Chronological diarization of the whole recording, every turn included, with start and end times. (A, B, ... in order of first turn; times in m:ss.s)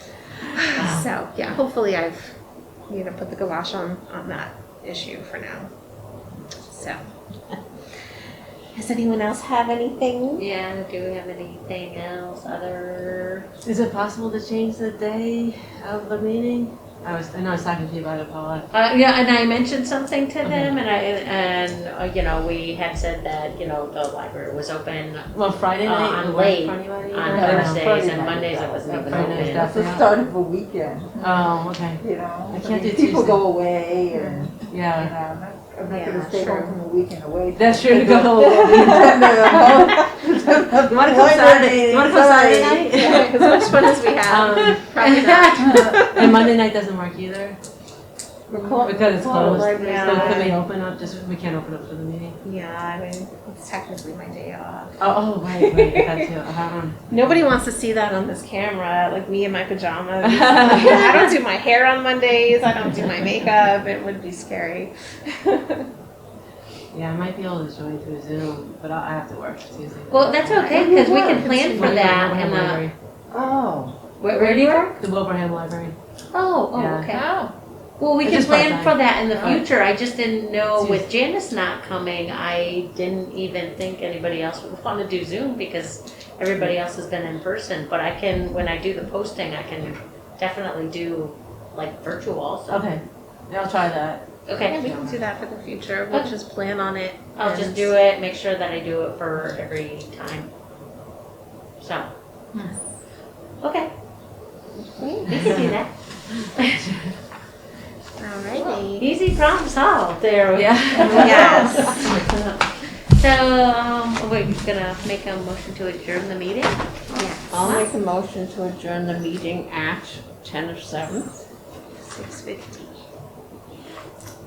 0:00.5-0:02.3 A
0:00.8-0:01.1 B
0:02.9-0:05.7 A
0:06.7-0:07.0 A
0:08.7-0:10.4 A
0:10.4-0:13.5 B
0:13.6-0:18.7 C
0:18.7-0:29.8 B
0:20.4-0:20.8 C
0:25.3-0:28.4 C
0:27.3-0:43.3 D
0:29.0-0:30.1 C
0:31.2-0:33.4 C
0:34.6-0:35.1 C
0:35.8-0:36.8 A
0:37.6-0:47.6 C
0:42.8-0:46.5 A
0:48.5-0:50.6 D
0:48.8-0:52.4 C
0:49.5-0:50.5 B
0:49.6-0:50.4 A
0:52.4-0:56.1 A
0:55.0-0:57.4 C
0:57.1-1:05.8 A
1:00.2-1:01.3 C
1:06.9-1:10.8 C
1:10.1-1:12.8 B
1:10.5-1:12.1 D
1:11.7-1:12.9 C
1:13.3-1:14.0 D
1:14.2-1:15.0 B
1:14.3-1:15.9 C
1:16.3-1:17.2 B
1:16.7-1:17.2 C
1:17.0-1:17.5 D
1:18.0-1:32.9 B
1:18.2-1:19.6 C
1:20.8-1:21.1 C
1:32.7-1:35.2 C
1:34.5-1:34.8 B
1:34.7-1:37.9 A
1:37.4-1:40.5 B
1:41.8-1:42.1 B
1:43.6-1:43.9 B
1:44.8-1:45.3 D
1:45.3-1:45.9 B
1:45.4-1:45.6 C
1:46.3-1:47.2 C
1:48.2-1:49.1 A
1:48.6-1:56.8 B
1:50.5-1:52.2 C
1:51.1-1:52.0 A
1:57.2-1:57.8 A
1:57.5-1:57.9 B
1:57.5-2:01.3 E
2:00.4-2:01.0 A
2:02.0-2:02.9 A